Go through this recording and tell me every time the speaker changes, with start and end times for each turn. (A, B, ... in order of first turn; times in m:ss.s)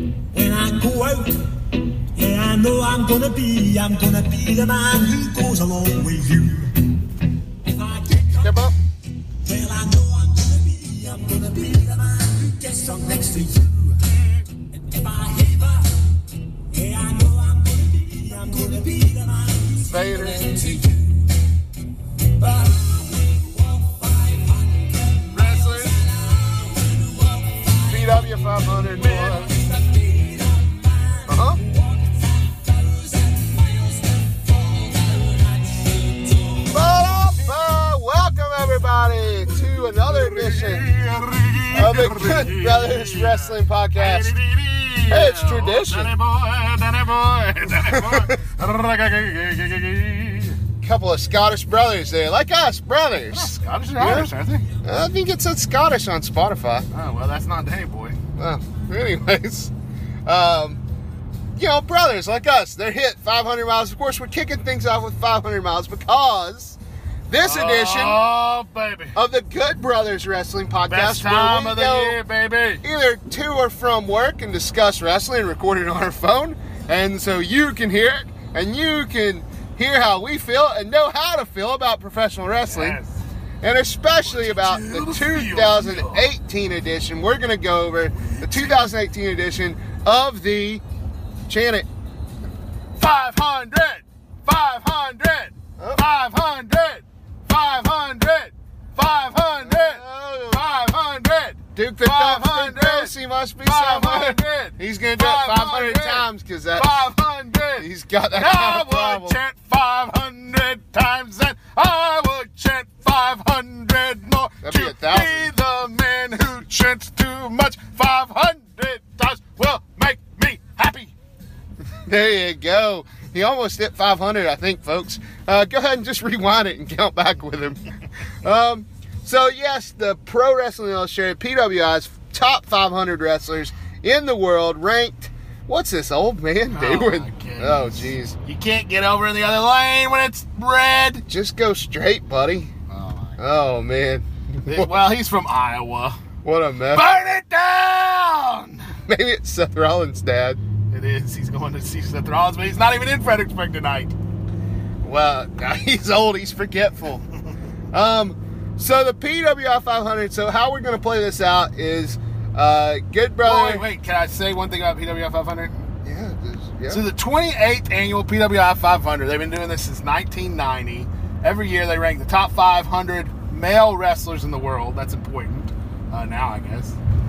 0:00.3-0:06.9 A
0:07.6-0:08.6 A
0:08.4-0:08.8 B
0:09.4-0:16.0 A
0:16.7-0:21.3 A
0:19.9-0:20.6 B
0:22.2-0:28.4 A
0:25.3-0:26.0 C
0:27.9-0:29.5 B
0:29.0-0:37.0 A
0:31.3-0:31.6 B
0:36.7-0:40.9 B
0:40.1-0:50.6 C
0:41.7-0:44.4 B
0:45.1-0:46.1 B
0:47.8-0:48.4 B
0:50.8-0:54.3 B
0:53.3-0:54.7 C
0:54.8-0:56.9 B
0:56.9-0:58.2 C
0:58.4-0:59.7 B
1:00.3-1:00.8 B
1:01.6-1:06.8 B
1:07.3-1:08.2 B
1:07.4-1:09.2 C
1:09.2-1:12.2 B
1:10.9-1:12.8 C
1:12.8-1:23.0 B
1:22.7-1:23.2 C
1:23.6-1:30.8 B
1:24.2-1:26.3 C
1:28.2-1:28.9 C
1:31.5-1:31.9 B
1:33.0-2:01.1 C
1:39.6-1:40.6 B
1:41.8-1:47.0 B
1:47.8-1:49.4 B
1:54.6-1:55.5 B
2:02.0-2:07.8 B
2:08.4-2:18.4 B
2:16.7-2:21.2 C
2:21.3-2:22.7 B
2:22.9-2:23.4 C
2:23.4-2:24.9 B
2:24.7-2:26.2 C
2:26.4-2:27.1 B
2:26.9-2:28.9 C
2:29.1-2:30.6 B
2:30.9-2:34.2 C
2:35.0-2:37.2 B
2:37.9-2:43.8 B
2:43.4-2:45.7 C
2:46.0-2:47.0 B
2:46.9-2:57.0 C